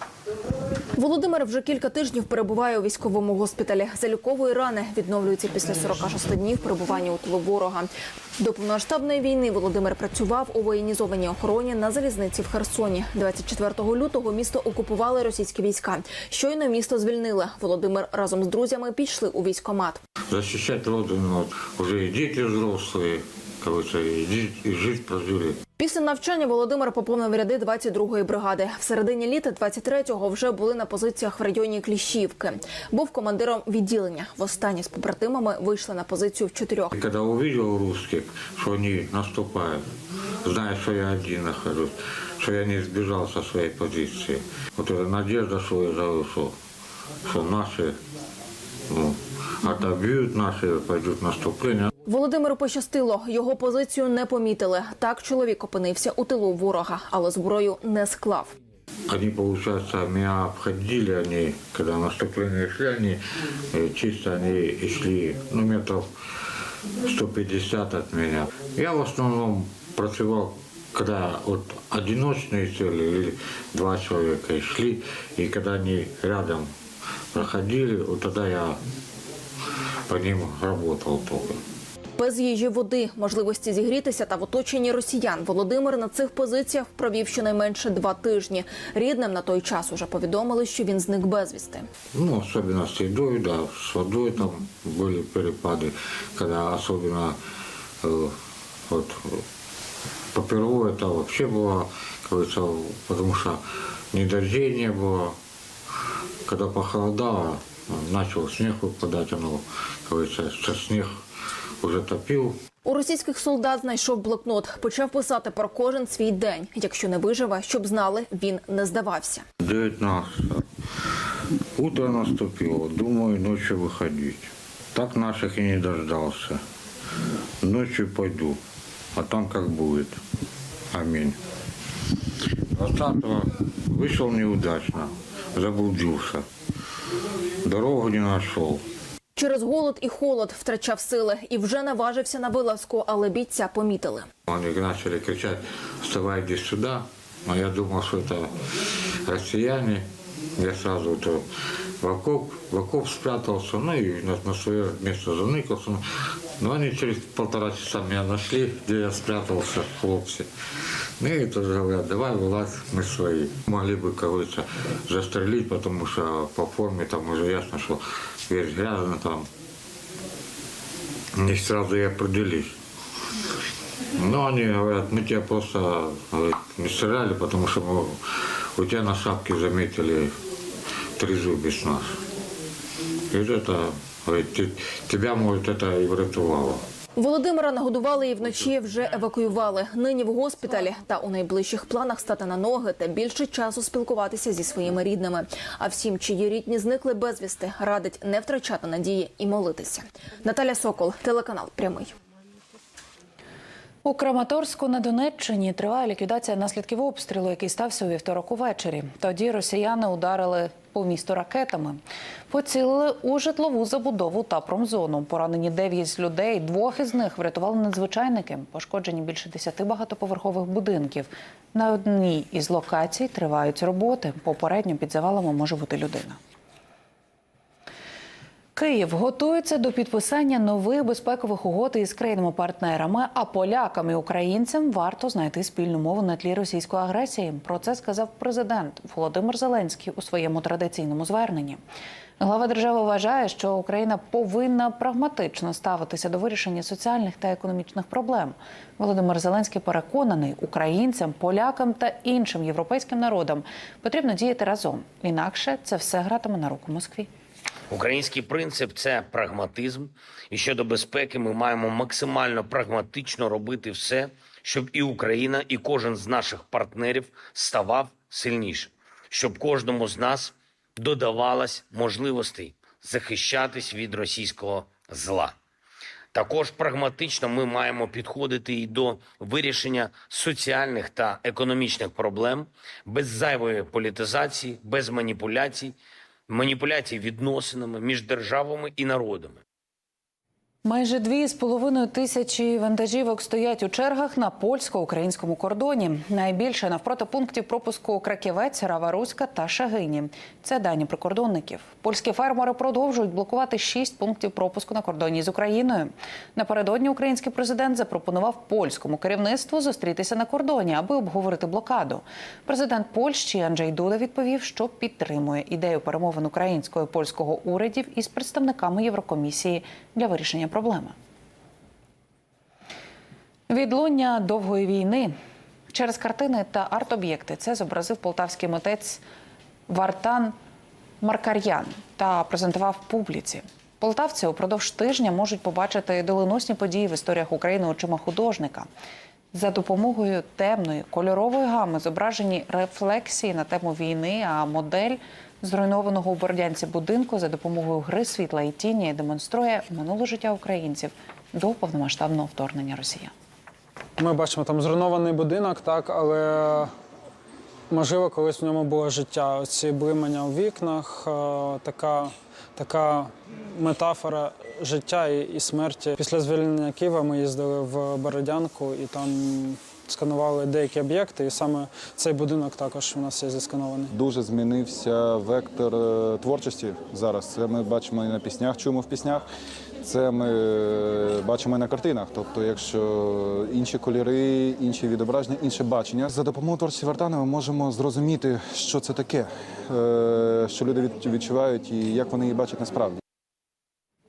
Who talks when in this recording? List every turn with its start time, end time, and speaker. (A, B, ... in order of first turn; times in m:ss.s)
0:00.9-0:20.0 A
0:20.3-0:25.6 B
0:25.8-0:36.9 A
0:36.9-0:39.8 B
0:40.4-0:46.5 B
0:47.2-0:48.0 B
0:48.9-0:51.9 B
0:52.1-0:58.5 A
0:59.1-1:03.2 B
1:03.7-1:06.1 B
1:07.0-1:16.7 B
1:17.3-1:18.8 B
1:20.1-1:21.6 B
1:22.2-1:31.8 A
1:32.1-1:37.4 B
1:38.0-1:38.3 B
1:38.9-1:39.4 B
1:40.3-1:43.6 B
1:44.1-1:45.4 B
1:46.4-1:51.2 B
1:51.8-1:52.6 B
1:52.8-1:59.4 A
1:59.6-2:00.6 B
2:01.8-2:06.6 B
2:07.6-2:08.6 B
2:09.1-2:10.2 B
2:10.9-2:11.4 B
2:12.7-2:16.4 B
2:17.6-2:18.8 B
2:19.4-2:24.3 A
2:24.5-2:28.5 B
2:29.2-2:31.4 B
2:32.0-2:36.0 B
2:36.6-2:40.5 B
2:41.2-2:49.5 B
2:51.3-2:52.8 B
2:54.1-3:00.3 B
3:01.2-3:02.2 B
3:03.3-3:06.8 B
3:07.2-3:22.1 A
3:24.0-3:46.4 C
3:48.7-4:01.8 C
4:02.4-4:17.3 C
4:17.9-4:35.5 D
4:36.3-4:46.0 D
4:46.5-4:49.6 D
4:50.8-5:21.1 C
5:23.7-5:25.3 C
5:25.9-5:29.2 C
5:29.9-5:30.5 C
5:31.2-5:38.9 C
5:39.5-5:53.3 C
5:54.2-5:56.9 E
5:57.9-6:14.1 E
6:14.1-6:19.4 F
6:20.0-6:33.2 F